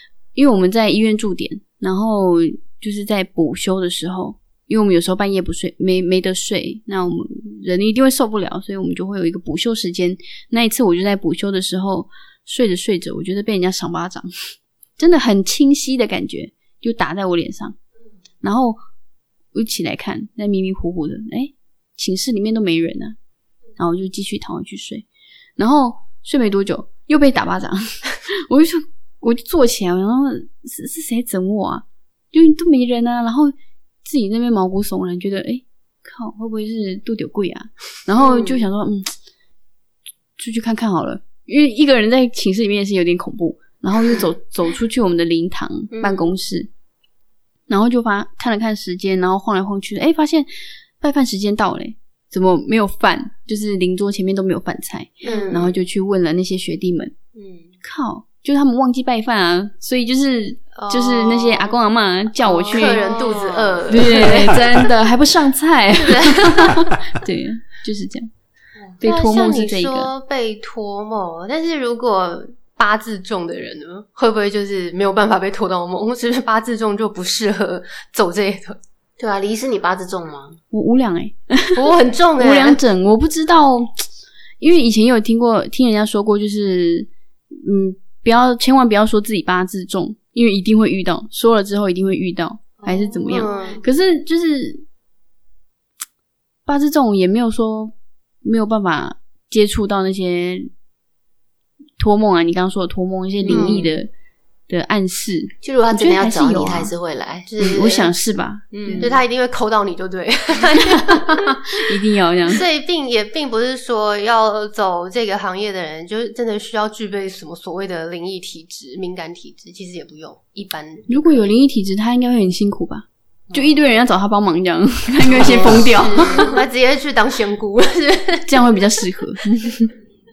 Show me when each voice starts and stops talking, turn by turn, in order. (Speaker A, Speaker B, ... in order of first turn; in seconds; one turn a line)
Speaker A: 0.3-14.3
Speaker A: 15.0-17.8
Speaker A: 18.4-18.8
Speaker A: 19.5-23.1
Speaker A: 23.8-25.1
Speaker A: 25.6-39.1
Speaker B: 38.2-38.6
Speaker A: 40.4-46.7
Speaker B: 45.9-46.3
Speaker A: 47.7-50.5
Speaker A: 51.0-57.1
Speaker C: 55.2-55.7
Speaker B: 55.2-55.8
Speaker B: 57.3-57.7
Speaker A: 57.8-63.0
Speaker C: 60.7-61.7
Speaker C: 62.5-64.9
Speaker B: 62.6-64.7
Speaker A: 63.9-68.3
Speaker C: 66.0-66.8
Speaker A: 69.0-70.1
Speaker C: 69.0-78.8
Speaker B: 79.2-80.6
Speaker A: 80.7-81.8
Speaker C: 81.7-82.8
Speaker A: 82.4-84.0
Speaker A: 84.6-94.8
Speaker B: 92.8-93.8
Speaker C: 93.2-93.8
Speaker A: 96.7-100.7
Speaker A: 102.0-104.1
Speaker B: 103.4-103.9
Speaker C: 103.5-103.9
Speaker A: 104.7-106.9
Speaker B: 105.6-107.6
Speaker C: 107.5-108.1
Speaker A: 107.6-109.2
Speaker B: 108.7-109.2
Speaker C: 109.0-111.5
Speaker A: 110.8-112.6
Speaker C: 112.5-121.5
Speaker A: 121.1-126.5
Speaker C: 125.3-128.5
Speaker B: 125.4-125.9
Speaker A: 128.4-129.9